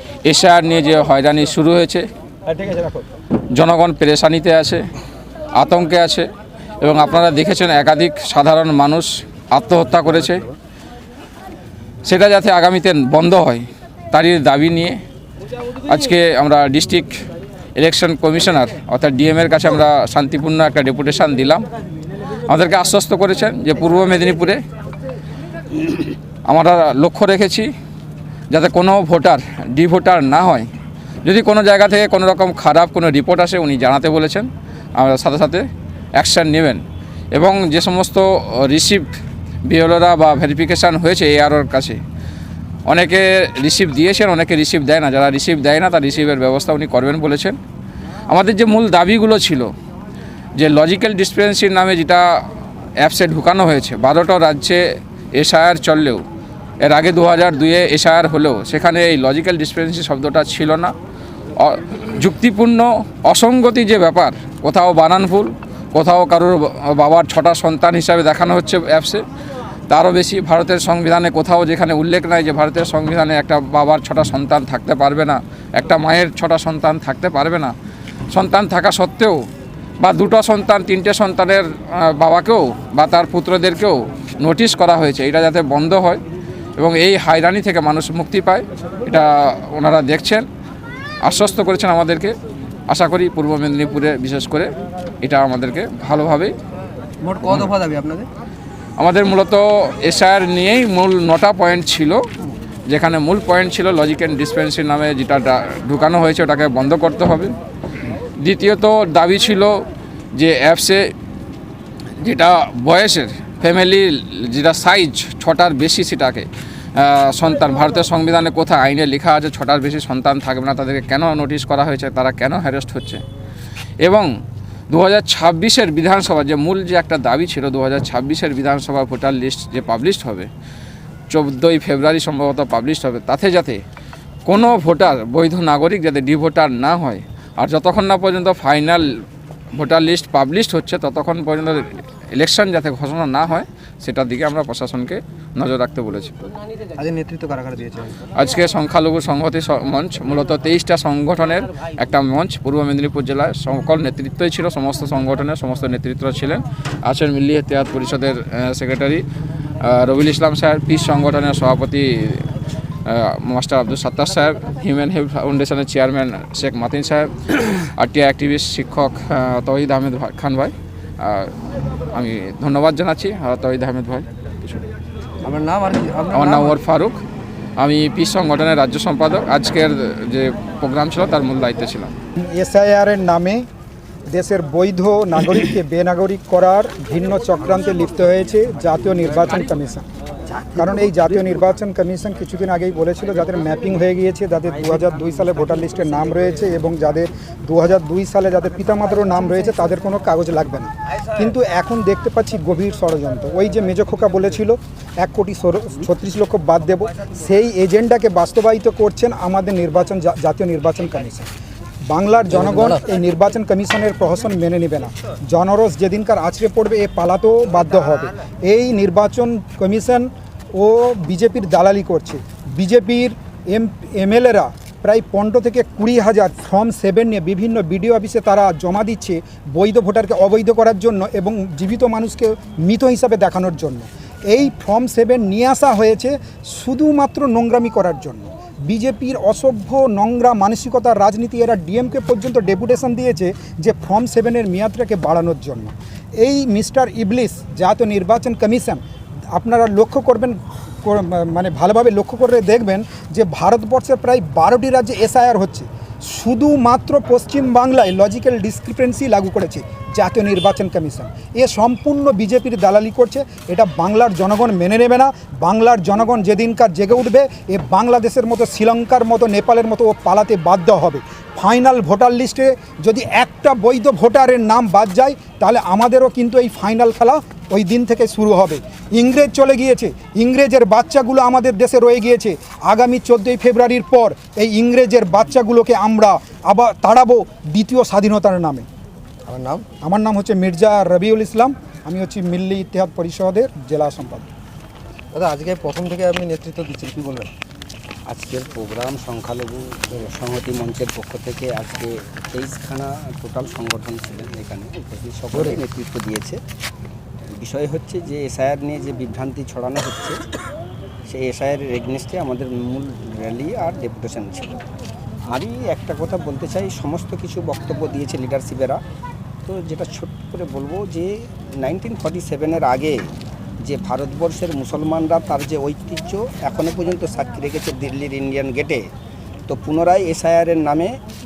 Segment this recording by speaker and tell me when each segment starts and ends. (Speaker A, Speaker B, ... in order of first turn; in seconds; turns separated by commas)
Speaker A: 0.2-2.0, Speaker B: 2.5-2.9, Speaker A: 3.5-4.8, Speaker A: 5.5-6.3, Speaker A: 6.8-10.5, Speaker A: 12.0-15.0, Speaker A: 15.8-17.1, Speaker A: 17.8-21.6, Speaker A: 22.5-24.6, Speaker A: 26.5-27.7, Speaker A: 28.5-30.7, Speaker A: 31.2-35.6, Speaker A: 36.2-36.8, Speaker A: 37.3-39.1, Speaker A: 39.6-42.0, Speaker A: 42.9-47.6, Speaker A: 48.3-49.7, Speaker A: 50.5-52.2, Speaker A: 53.0-54.8, Speaker A: 55.3-56.2, Speaker A: 56.8-60.9, Speaker A: 61.6-69.2, Speaker A: 69.9-77.7, Speaker A: 78.3-79.4, Speaker A: 80.0-86.2, Speaker A: 86.8-90.5, Speaker A: 91.2-92.3, Speaker A: 92.9-96.5, Speaker C: 97.2-98.3, Speaker A: 99.0-102.3, Speaker A: 102.9-107.5, Speaker A: 108.4-111.1, Speaker A: 112.2-123.2, Speaker A: 124.0-124.3, Speaker A: 124.9-130.5, Speaker A: 131.3-133.8, Speaker A: 134.5-139.1, Speaker A: 139.7-146.3, Speaker C: 147.0-148.1, Speaker A: 148.3-159.2, Speaker A: 159.8-162.5, Speaker A: 163.0-171.5, Speaker A: 172.1-174.3, Speaker C: 175.4-176.7, Speaker A: 176.3-177.2, Speaker A: 177.8-182.1, Speaker B: 182.4-183.7, Speaker B: 184.3-190.1, Speaker B: 190.7-211.5, Speaker B: 212.1-249.0, Speaker B: 249.5-288.9, Speaker C: 289.5-289.9, Speaker B: 290.0-294.5, Speaker C: 295.3-297.5, Speaker D: 298.3-306.6, Speaker C: 305.5-305.8, Speaker D: 307.6-310.4, Speaker D: 311.3-314.8, Speaker D: 315.5-319.0, Speaker D: 319.6-323.2, Speaker D: 323.8-329.0, Speaker D: 329.7-331.2